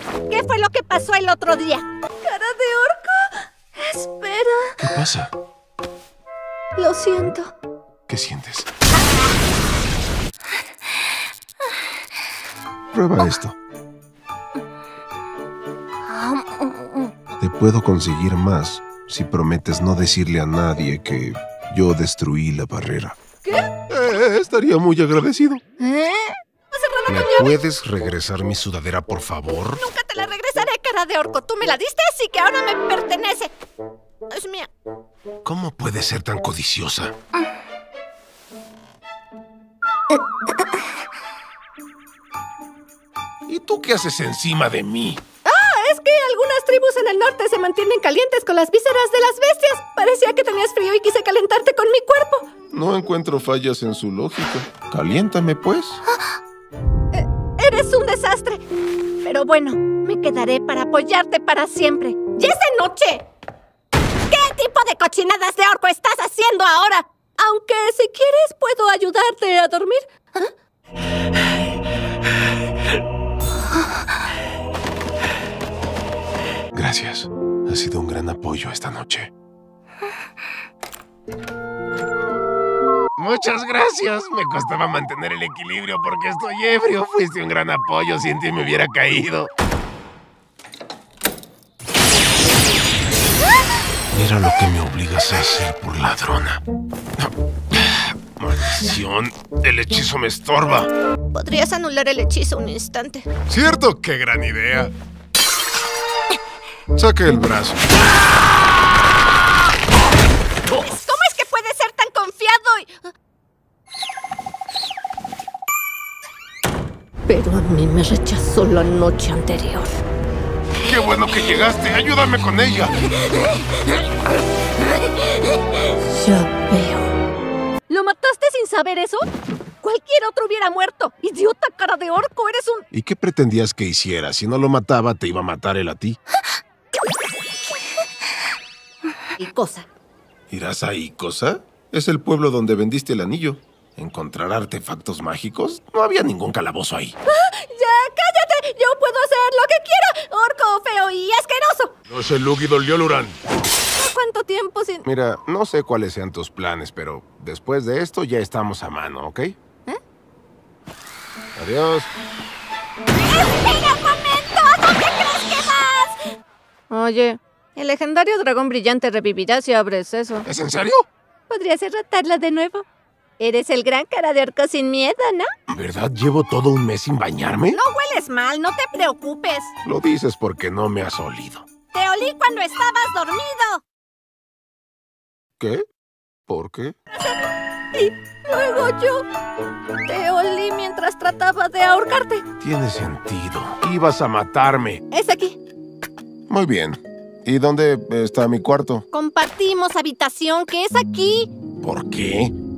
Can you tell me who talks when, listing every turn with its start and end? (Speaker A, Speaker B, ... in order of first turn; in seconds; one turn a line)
Speaker A: 0.3-4.9
Speaker B: 4.8-5.3
Speaker A: 6.8-7.5
Speaker B: 8.1-8.7
Speaker B: 12.9-13.5
Speaker A: 16.2-16.8
Speaker B: 17.4-23.2
Speaker A: 23.4-23.7
Speaker B: 23.9-25.6
Speaker A: 25.8-27.6
Speaker B: 27.1-29.8
Speaker A: 29.8-33.5
Speaker A: 34.3-34.7
Speaker B: 35.4-37.1
Speaker B: 43.5-45.2
Speaker A: 45.4-52.5
Speaker B: 52.7-56.0
Speaker A: 57.1-58.6
Speaker A: 59.2-63.2
Speaker A: 64.3-70.5
Speaker B: 76.7-79.3
Speaker B: 83.2-89.5
Speaker B: 94.1-96.6
Speaker B: 97.2-100.9
Speaker A: 101.3-103.3
Speaker B: 103.5-104.9
Speaker B: 106.9-107.9
Speaker A: 110.7-113.1
Speaker A: 117.3-120.0
Speaker B: 120.8-122.9
Speaker A: 125.0-127.1
Speaker A: 127.9-129.2
Speaker A: 129.8-132.8
Speaker B: 132.9-136.2
Speaker A: 139.4-139.9
Speaker B: 140.5-147.2
Speaker A: 147.3-151.9
Speaker B: 152.1-153.4
Speaker A: 153.9-155.0
Speaker B: 155.0-159.6
Speaker B: 161.6-162.1
Speaker A: 163.3-166.2
Speaker A: 166.9-170.4
Speaker B: 170.4-171.1
Speaker A: 171.5-172.8
Speaker A: 173.4-175.5
Speaker B: 175.7-177.8
Speaker A: 177.7-179.7
Speaker B: 179.8-181.7
Speaker A: 181.9-183.8
Speaker B: 185.6-185.8
Speaker B: 186.5-186.9
Speaker A: 187.1-189.2
Speaker A: 190.0-192.4
Speaker B: 192.6-195.0
Speaker A: 195.1-195.6
Speaker B: 196.5-199.0
Speaker A: 199.1-201.5
Speaker B: 201.8-202.5